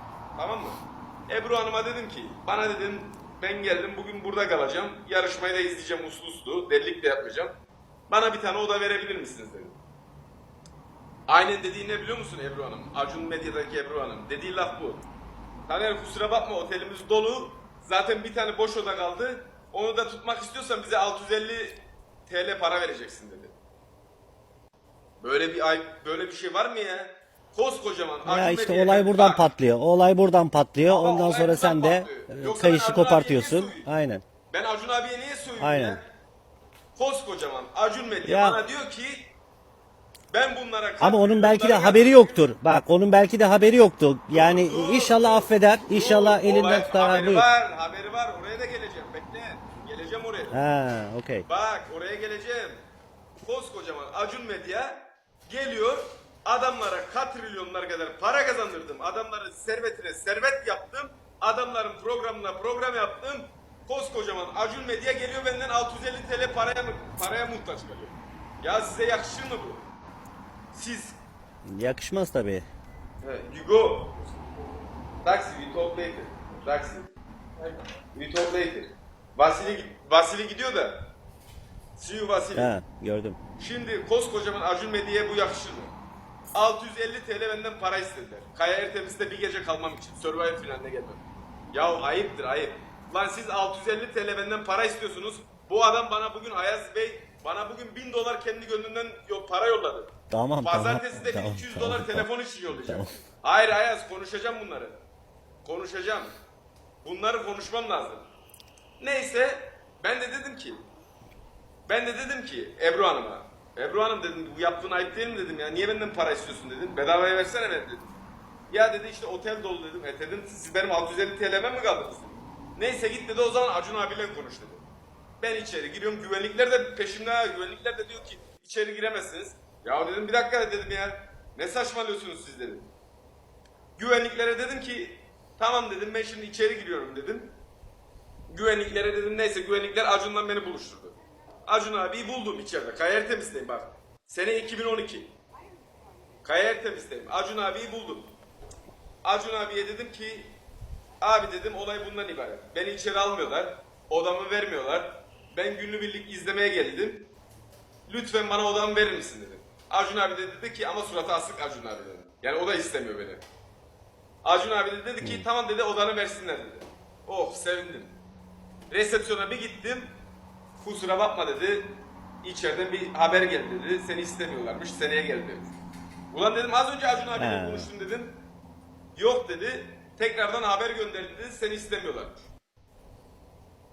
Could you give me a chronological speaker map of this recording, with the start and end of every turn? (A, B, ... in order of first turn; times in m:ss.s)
0:00.4-0:07.5 A
0:08.1-0:09.8 A
0:11.3-0:15.0 A
0:15.7-0:23.5 A
0:25.2-0:29.5 A
0:28.2-0:34.2 B
0:30.8-0:33.9 A
0:34.5-0:36.0 A
0:35.6-0:36.0 B
0:36.9-0:39.3 A
0:38.2-0:38.6 B
0:40.3-0:42.5 A
0:41.0-0:47.4 B
0:44.3-0:50.6 A
0:50.5-0:51.4 B
0:51.5-0:52.8 A
0:53.4-1:09.8 A
1:10.7-1:11.2 A
1:11.6-1:12.6 B
1:13.2-1:14.1 A
1:15.2-1:17.1 A
1:18.1-1:21.1 A
1:22.0-1:22.7 A
1:22.5-1:23.4 B
1:23.6-1:25.9 A
1:26.5-1:45.0 A
1:40.3-1:43.1 B
1:45.6-1:46.3 A
1:47.0-1:48.2 A
1:49.0-1:50.8 A
1:51.9-1:58.1 A
1:58.7-2:04.8 A
2:05.4-2:12.9 A
2:14.0-2:17.6 A
2:18.5-2:25.4 A
2:26.4-2:28.4 A
2:29.2-2:30.6 A
2:31.2-2:37.3 A
2:38.1-2:43.4 A
2:44.4-2:48.2 A
2:48.9-2:50.1 A
2:50.8-2:55.8 A
2:56.3-2:58.4 A
2:57.4-2:57.9 B
2:59.1-3:02.4 A